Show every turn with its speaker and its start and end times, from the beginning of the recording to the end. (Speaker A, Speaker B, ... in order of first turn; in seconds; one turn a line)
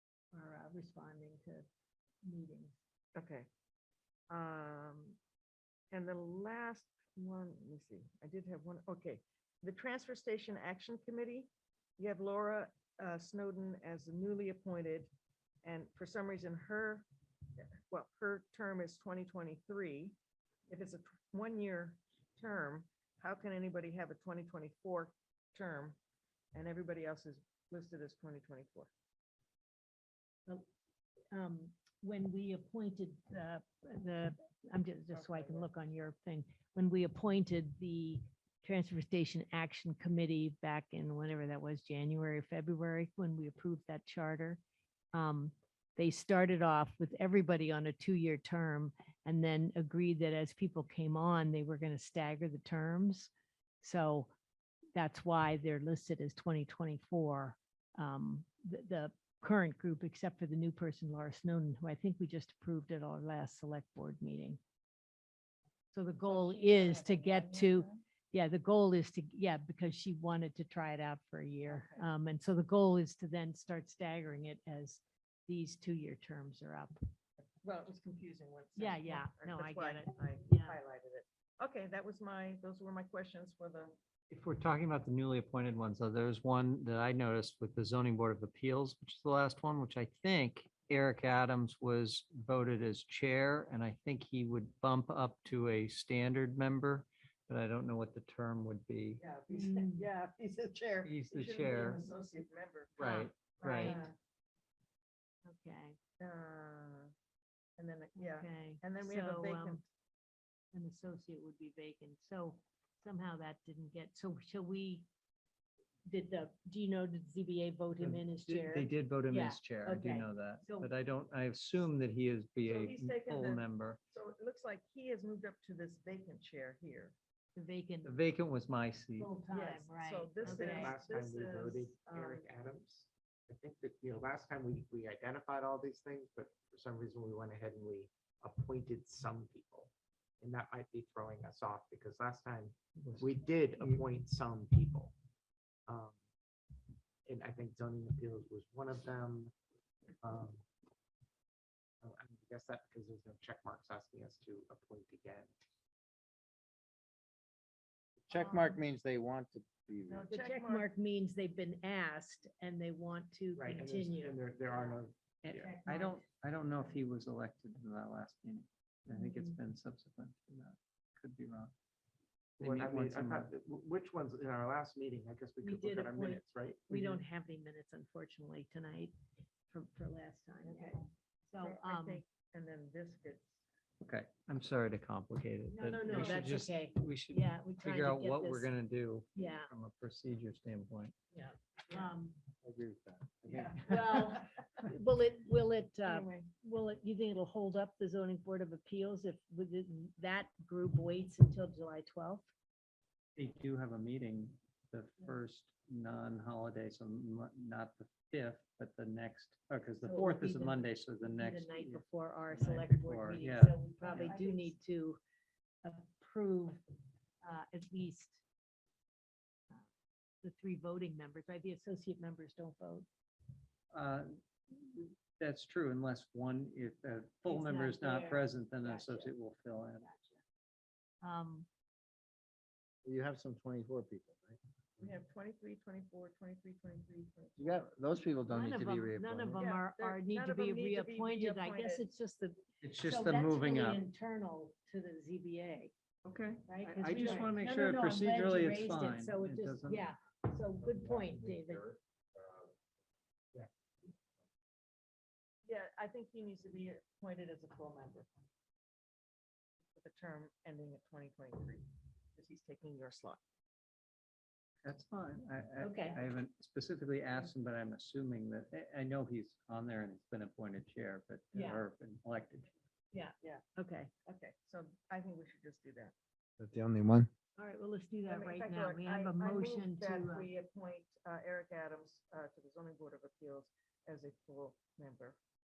Speaker A: 0.3-1.6
Speaker A: 2.2-2.7
Speaker B: 3.1-3.5
Speaker B: 4.3-5.2
Speaker B: 5.9-15.1
Speaker B: 15.6-17.1
Speaker B: 17.6-20.2
Speaker B: 20.7-26.0
Speaker B: 26.5-28.9
Speaker A: 31.3-44.6
Speaker B: 35.1-35.7
Speaker A: 45.1-54.3
Speaker A: 55.0-64.6
Speaker A: 65.9-77.0
Speaker B: 66.2-68.0
Speaker B: 71.7-72.1
Speaker B: 77.6-84.0
Speaker A: 78.8-80.8
Speaker C: 84.3-99.2
Speaker B: 99.2-103.0
Speaker A: 99.5-100.1
Speaker C: 101.0-102.0
Speaker A: 103.0-104.1
Speaker C: 103.0-104.0
Speaker B: 103.7-104.1
Speaker A: 105.5-106.0
Speaker B: 106.2-107.1
Speaker B: 107.8-109.8
Speaker A: 108.2-109.8
Speaker A: 110.7-115.1
Speaker A: 116.1-120.9
Speaker C: 118.0-124.0
Speaker B: 122.6-127.2
Speaker A: 127.6-128.2
Speaker C: 128.0-129.3
Speaker A: 129.2-131.0
Speaker B: 129.5-132.4
Speaker D: 130.4-145.1
Speaker C: 143.1-144.0
Speaker D: 145.9-146.2
Speaker D: 147.3-149.5
Speaker D: 150.2-150.6
Speaker D: 152.0-155.5
Speaker E: 158.3-160.3
Speaker A: 158.3-158.8
Speaker B: 160.1-160.9
Speaker A: 160.3-165.0
Speaker D: 163.6-165.8
Speaker C: 165.4-171.7
Speaker A: 165.5-166.2
Speaker A: 169.2-169.6
Speaker D: 172.6-177.2
Speaker C: 172.6-173.5
Speaker A: 175.6-179.1
Speaker A: 179.7-182.2
Speaker B: 180.6-181.0
Speaker B: 181.6-183.6
Speaker C: 184.0-191.1
Speaker A: 185.7-188.7
Speaker B: 186.1-186.5
Speaker A: 189.3-189.7
Speaker A: 191.3-192.4
Speaker E: 192.6-194.0
Speaker B: 193.5-194.3
Speaker A: 193.8-202.5
Speaker B: 196.1-196.5
Speaker C: 203.4-214.3
Speaker A: 210.0-215.2
Speaker B: 214.0-214.7
Speaker A: 215.8-216.8
Speaker A: 217.4-218.4
Speaker A: 220.4-223.1
Speaker C: 223.9-230.1
Speaker A: 227.5-229.3
Speaker A: 230.0-230.4
Speaker A: 231.2-231.7
Speaker E: 233.1-235.1
Speaker B: 235.0-237.9
Speaker E: 237.6-239.7
Speaker A: 238.5-245.9
Speaker B: 239.6-242.1
Speaker C: 242.8-244.0
Speaker C: 246.2-250.1
Speaker A: 246.7-251.9
Speaker B: 247.1-247.6
Speaker E: 250.8-252.7
Speaker B: 255.7-258.3
Speaker B: 260.0-263.4
Speaker C: 264.8-272.7
Speaker A: 265.8-266.2
Speaker A: 271.5-271.9
Speaker A: 273.1-274.1
Speaker B: 274.2-276.1
Speaker E: 276.6-277.3
Speaker A: 277.6-280.5
Speaker B: 278.2-285.4